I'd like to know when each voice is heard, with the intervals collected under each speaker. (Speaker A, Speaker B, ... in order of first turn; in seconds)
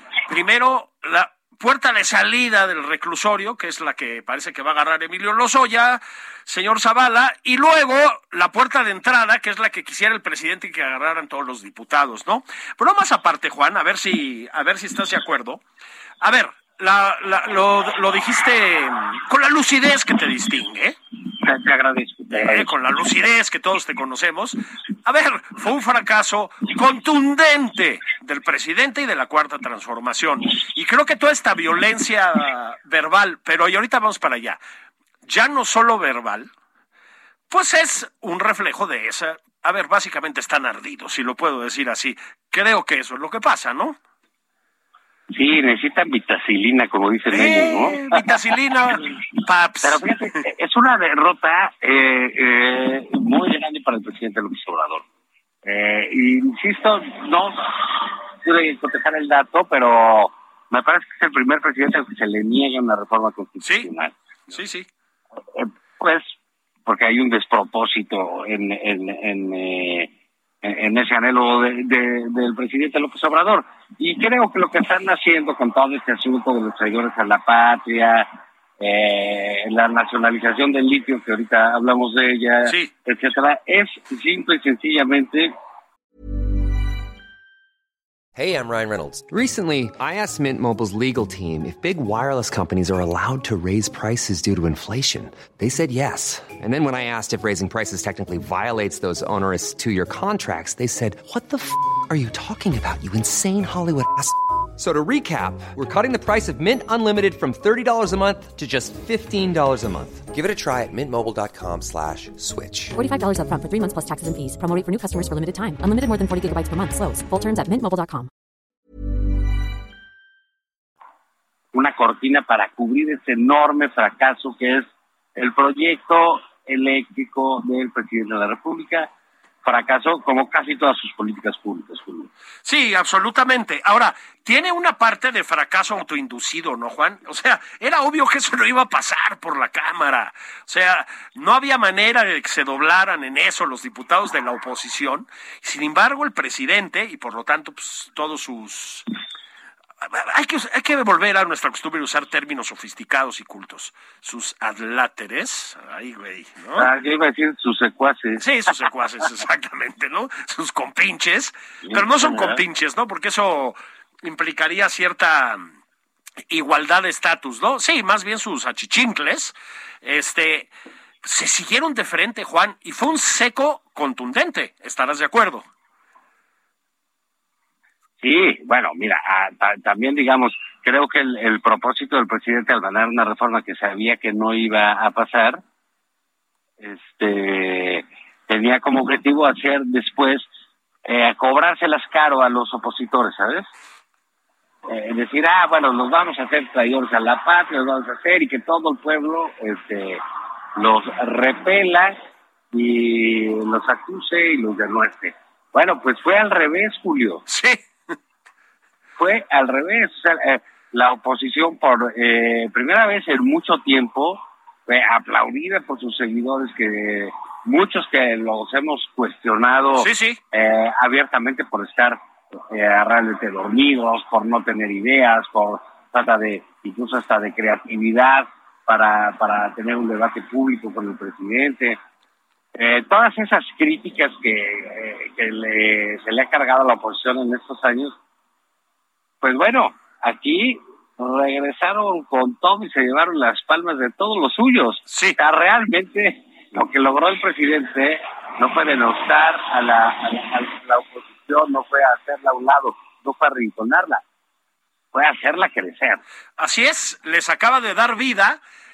Speaker A: 0.3-15.6, 16.2-21.0, 22.3-34.6, 35.2-36.5, 37.5-44.0, 47.3-50.0, 63.6-63.9, 64.5-64.9, 82.7-82.9, 132.6-149.1, 150.0-156.9, 158.4-165.6, 166.5-170.7, 171.2-175.6, 207.5-207.8, 219.9-220.4, 245.1-245.4, 256.6-258.6
Speaker B: 21.4-22.7, 45.3-48.3, 49.8-55.0, 55.6-64.1, 65.5-66.3, 66.8-70.1, 70.6-85.5, 121.7-129.1, 129.6-132.3, 156.8-158.4, 161.8-162.6, 178.2-185.6, 186.8-190.5, 191.0-193.7, 194.9-200.2, 200.8-202.2, 202.7-207.4, 209.2-232.0, 232.7-238.2, 239.4-254.2, 255.1-256.2
Speaker C: 88.3-113.0
Speaker D: 112.9-118.3